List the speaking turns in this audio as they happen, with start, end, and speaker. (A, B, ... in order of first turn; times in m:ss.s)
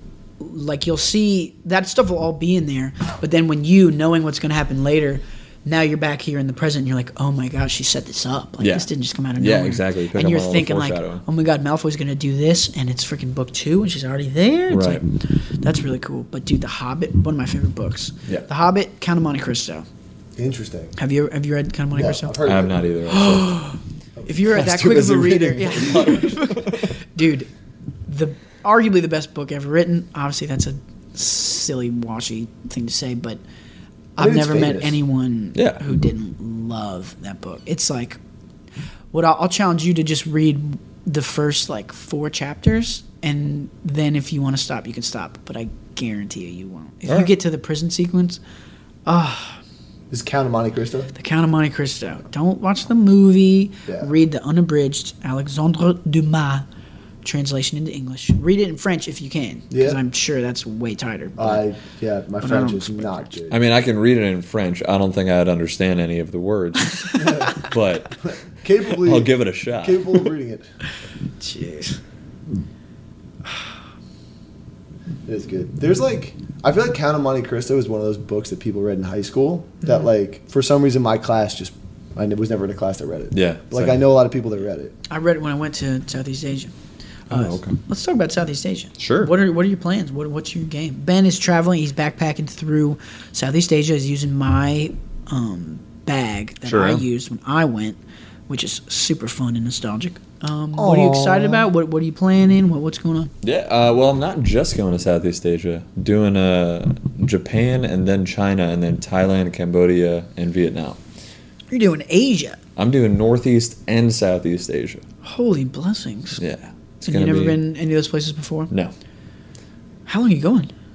0:00.4-0:19.8 A
0:08.6-0:11.2 B
0:14.7-0:15.0 B
0:20.4-0:20.9 C
0:21.0-0:22.4 A
0:21.9-0:22.8 C
0:22.4-0:23.6 B
0:23.1-0:27.5 A
0:24.2-0:26.2 C
0:24.5-0:26.9 B
0:28.1-0:33.4 A
0:34.2-0:38.2 A
0:34.2-0:35.0 C
0:35.5-0:35.8 B
0:39.1-0:48.4 A
0:49.0-0:49.6 A
0:50.1-0:51.1 C
0:51.1-0:56.6 A
0:57.2-1:01.6 A
0:59.7-1:00.0 C
1:01.4-1:03.6 C
1:02.4-1:03.3 A
1:03.5-1:08.2 B
1:07.0-1:07.6 A
1:07.2-1:07.6 C
1:08.2-1:10.6 C
1:09.0-1:10.2 B
1:11.4-1:12.0 A
1:15.2-1:24.9 C
1:23.3-1:24.0 B
1:25.1-1:26.7 A
1:27.3-1:27.8 B
1:27.3-1:43.3 A
1:29.0-1:29.3 B
1:36.6-1:37.0 B
1:40.7-1:41.7 C
1:43.4-1:51.0 B
1:51.7-1:52.6 A
1:52.8-1:55.0 B
1:55.2-1:56.4 A
1:56.4-1:57.6 B
1:57.0-1:58.7 A
2:00.1-2:00.7 A